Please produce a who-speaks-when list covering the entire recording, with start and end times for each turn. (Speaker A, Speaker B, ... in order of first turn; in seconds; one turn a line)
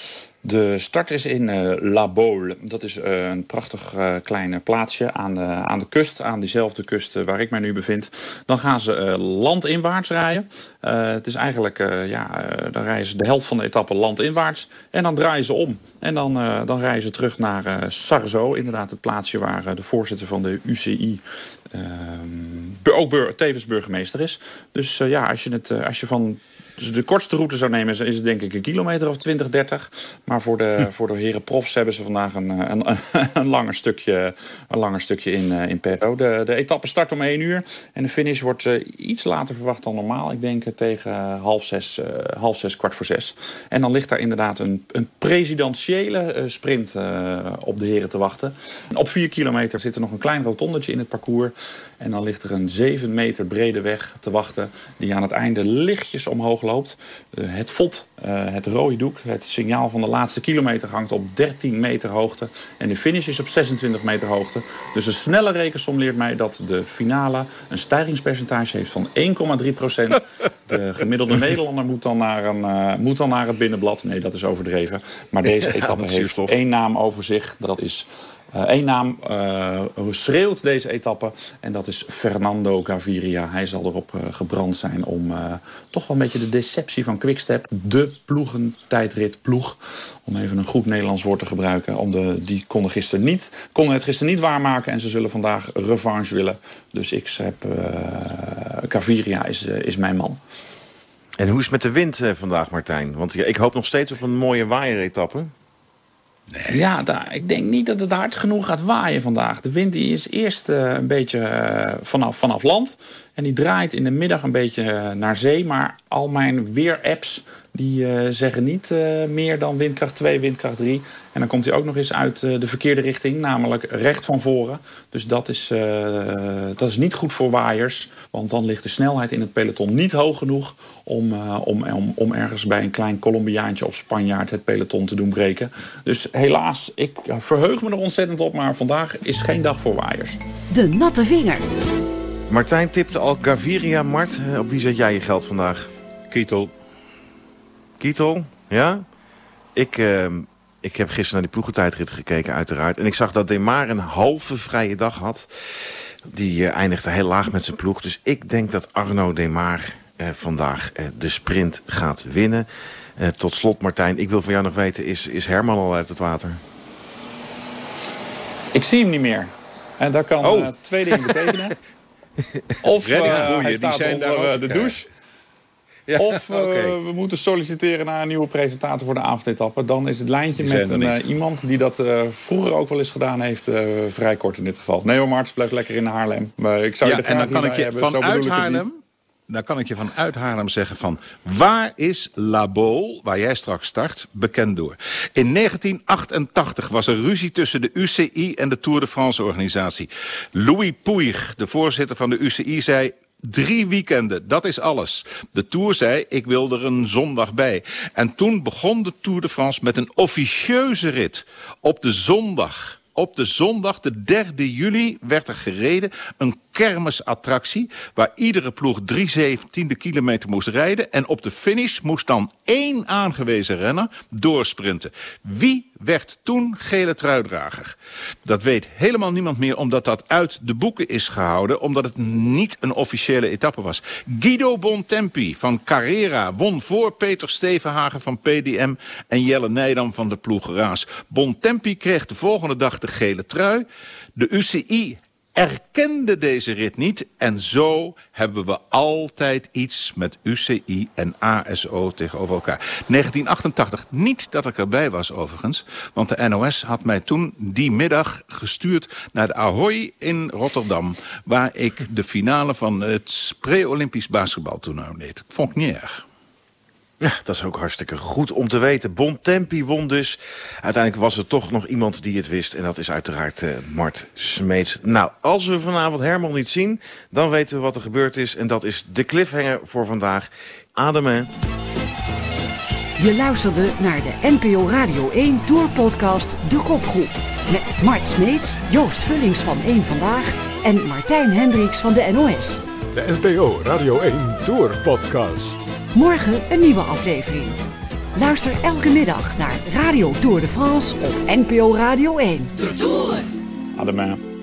Speaker A: 0.4-100.4
Speaker B: 75.5-76.5
Speaker B: 101.4-105.5
Speaker C: 106.5-106.8
Speaker A: 106.7-140.4
Speaker D: 140.7-141.7
Speaker B: 142.5-145.9
Speaker C: 146.3-146.7
Speaker B: 148.0-149.0
Speaker B: 149.7-166.6
Speaker A: 168.7-171.8
Speaker B: 170.4-171.7
Speaker A: 172.8-175.1
Speaker C: 173.0-174.9
Speaker C: 176.1-177.0
Speaker A: 176.1-188.8
Speaker C: 180.6-181.2
Speaker C: 187.0-189.0
Speaker C: 189.5-266.2
Speaker B: 267.2-281.5
Speaker D: 283.2-292.8
Speaker E: 293.1-295.9
Speaker D: 296.1-297.8
Speaker D: 298.3-303.4
Speaker A: 303.9-304.4